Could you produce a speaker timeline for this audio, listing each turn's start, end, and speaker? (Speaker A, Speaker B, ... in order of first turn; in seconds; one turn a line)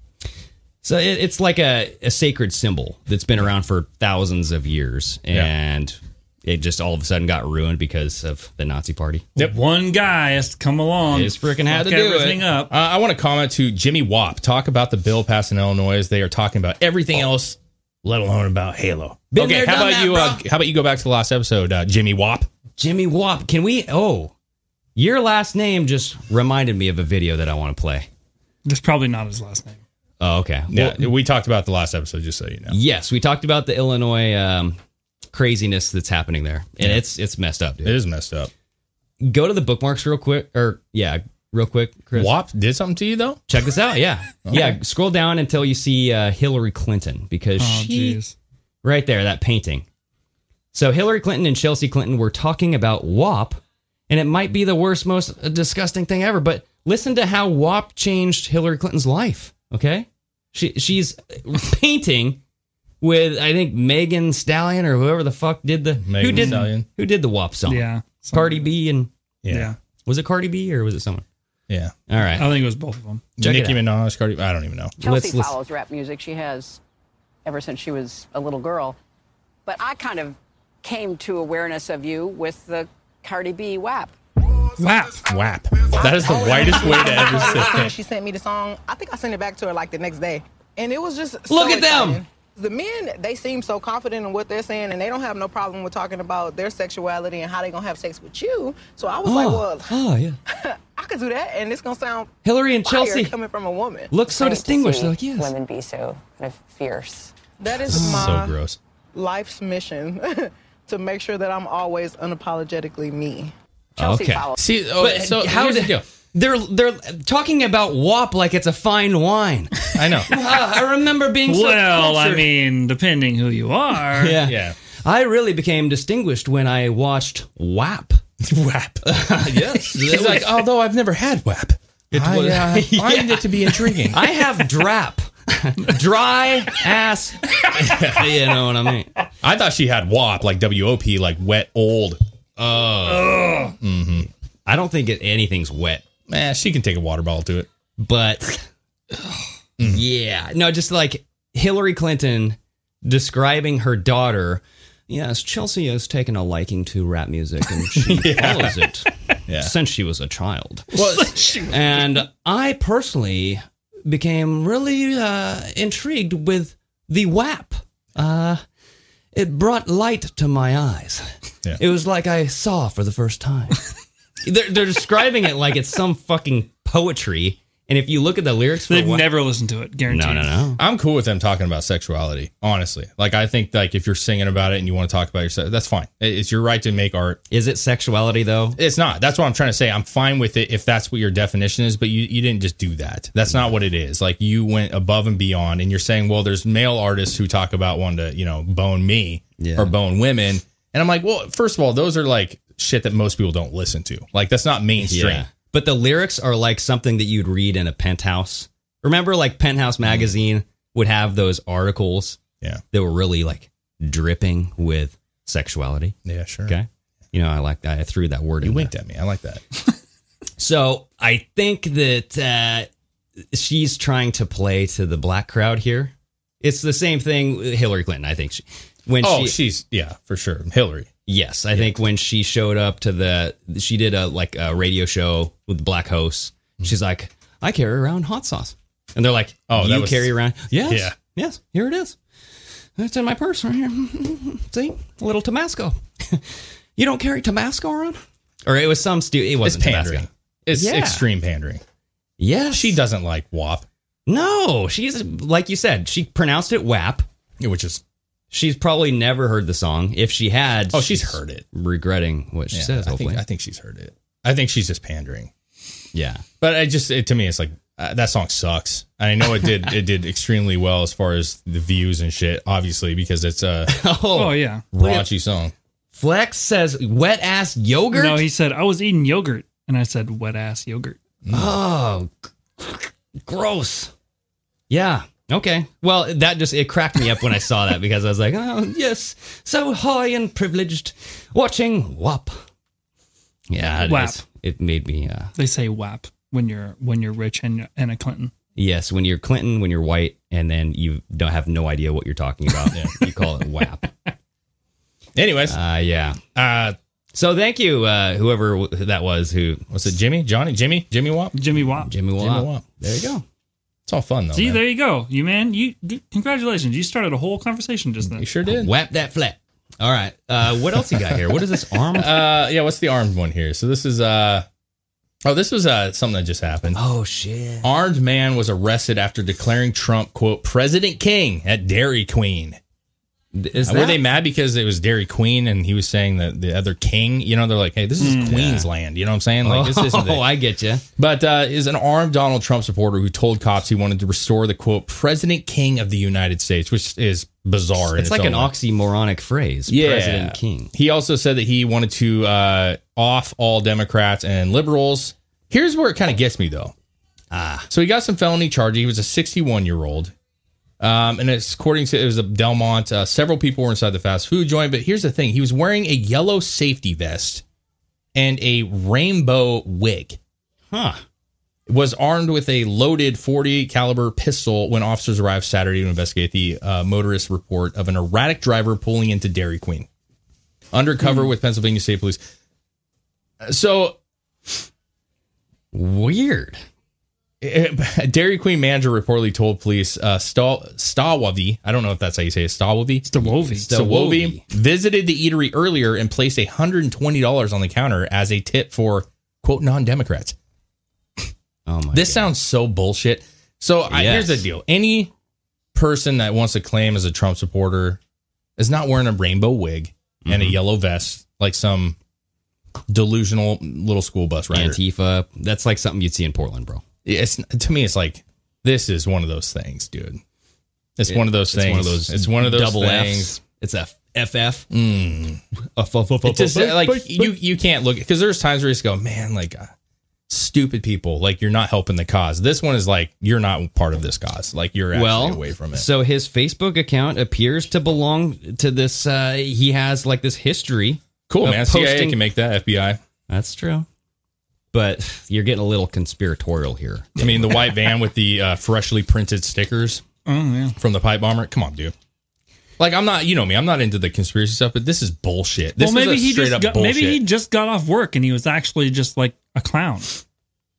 Speaker A: 0.8-9.3
Speaker B: 9.4-12.7
Speaker A: 11.1-12.4
Speaker C: 12.7-22.5
Speaker A: 19.3-20.4
Speaker A: 22.8-24.3
Speaker A: 25.0-28.1
Speaker B: 28.6-29.8
Speaker A: 30.2-31.1
Speaker C: 30.7-32.8
Speaker A: 32.7-34.8
Speaker A: 35.3-38.0
Speaker C: 37.8-38.5
Speaker A: 39.2-42.3
Speaker C: 42.1-43.4
Speaker A: 43.5-48.2
Speaker C: 44.5-44.8
Speaker B: 47.6-48.3
Speaker A: 48.8-49.9
Speaker A: 50.7-62.4
Speaker A: 63.0-69.1
Speaker C: 66.0-66.9
Speaker B: 66.2-66.7
Speaker B: 67.7-68.7
Speaker C: 69.4-69.8
Speaker B: 69.5-69.8
Speaker A: 70.1-71.2
Speaker C: 71.7-72.0
Speaker A: 72.1-72.5
Speaker B: 72.3-73.3
Speaker C: 73.4-75.0
Speaker A: 73.4-73.8
Speaker A: 75.0-75.6
Speaker D: 75.0-76.8
Speaker D: 77.5-79.0
Speaker D: 79.7-84.1
Speaker B: 84.8-85.2
Speaker C: 85.2-87.9
Speaker E: 85.9-100.0
Speaker A: 86.5-87.4
Speaker A: 91.5-92.2
Speaker A: 99.2-100.4
Speaker E: 100.5-102.3
Speaker A: 102.4-103.3
Speaker E: 102.8-104.1
Speaker A: 104.1-105.5
Speaker D: 104.2-107.3
Speaker E: 107.6-108.6
Speaker C: 107.9-108.8
Speaker A: 107.9-108.4
Speaker E: 109.1-113.5
Speaker D: 114.0-114.6
Speaker A: 114.0-122.5
Speaker C: 114.6-116.0
Speaker C: 120.0-120.3
Speaker B: 121.4-124.4
Speaker A: 124.1-128.2
Speaker C: 124.4-124.8
Speaker C: 128.4-134.5
Speaker A: 129.1-130.6
Speaker A: 132.1-139.1
Speaker C: 137.7-138.3
Speaker C: 139.4-144.3
Speaker B: 143.1-143.8
Speaker A: 144.7-146.0
Speaker C: 146.3-147.7
Speaker A: 148.0-148.7
Speaker C: 149.8-150.0
Speaker A: 149.8-160.9
Speaker C: 158.0-158.8
Speaker C: 159.5-159.8
Speaker C: 160.9-161.6
Speaker B: 160.9-161.8
Speaker A: 161.7-168.6
Speaker A: 169.3-173.8
Speaker A: 174.4-179.3
Speaker B: 178.9-180.6
Speaker A: 180.1-180.8
Speaker C: 180.8-187.4
Speaker A: 187.5-188.8
Speaker C: 188.8-205.5
Speaker A: 199.6-199.9
Speaker A: 205.0-212.4
Speaker C: 210.0-210.3
Speaker A: 212.9-216.2
Speaker C: 216.2-216.8
Speaker A: 216.7-218.9
Speaker C: 218.6-219.6
Speaker A: 220.6-222.9
Speaker A: 223.5-229.6
Speaker C: 229.2-231.1
Speaker A: 231.3-242.2
Speaker C: 239.7-241.2
Speaker A: 243.0-251.3
Speaker C: 249.6-251.8
Speaker A: 252.4-253.0
Speaker C: 252.7-253.9
Speaker A: 254.3-257.3
Speaker C: 257.6-258.0
Speaker A: 258.5-263.4
Speaker C: 260.9-261.6
Speaker C: 262.7-265.5
Speaker A: 266.1-266.4
Speaker C: 266.6-273.9
Speaker A: 273.9-275.3
Speaker B: 274.4-274.8
Speaker C: 274.9-275.7
Speaker A: 276.1-278.4
Speaker B: 278.1-281.2
Speaker C: 281.4-281.8
Speaker A: 281.5-284.1
Speaker A: 284.9-292.6
Speaker A: 293.7-295.5
Speaker B: 294.0-294.4
Speaker B: 295.6-298.5
Speaker A: 298.8-304.1
Speaker C: 305.4-305.8
Speaker A: 305.7-306.4
Speaker C: 306.6-307.0
Speaker A: 307.3-309.9
Speaker C: 309.9-311.6
Speaker B: 311.5-312.1
Speaker A: 312.0-313.4
Speaker C: 312.4-312.9
Speaker C: 314.1-314.8
Speaker B: 314.5-318.5
Speaker C: 318.3-318.9
Speaker A: 318.7-322.5
Speaker C: 320.9-324.7
Speaker C: 325.4-327.0
Speaker A: 326.9-327.9
Speaker C: 327.8-332.8
Speaker A: 333.5-334.2
Speaker C: 333.8-340.5
Speaker B: 338.2-338.8
Speaker A: 339.6-341.1
Speaker C: 341.2-348.7
Speaker A: 348.1-350.9
Speaker C: 349.9-356.9
Speaker A: 357.5-357.9
Speaker C: 357.9-360.3
Speaker C: 361.0-367.6
Speaker C: 368.4-370.4
Speaker A: 370.9-371.2
Speaker C: 371.9-380.1
Speaker C: 380.9-382.4
Speaker C: 383.6-384.2
Speaker A: 385.9-386.8
Speaker C: 387.6-400.6
Speaker B: 393.2-393.9
Speaker A: 393.4-394.6
Speaker A: 401.9-402.5
Speaker C: 402.1-405.3
Speaker A: 404.1-404.7
Speaker C: 405.9-408.2
Speaker C: 408.8-412.2
Speaker A: 410.4-410.8
Speaker C: 413.1-415.0
Speaker A: 414.7-417.0
Speaker C: 417.2-420.4
Speaker C: 421.2-423.6
Speaker A: 421.3-424.9
Speaker C: 424.9-425.6
Speaker A: 425.9-427.6
Speaker C: 426.4-429.9
Speaker C: 430.5-436.1
Speaker A: 435.1-442.4
Speaker C: 441.5-443.2
Speaker A: 443.5-444.1
Speaker A: 444.9-447.8
Speaker C: 447.4-450.2
Speaker B: 450.5-451.0
Speaker C: 451.0-452.1
Speaker C: 453.0-457.4
Speaker B: 456.0-460.4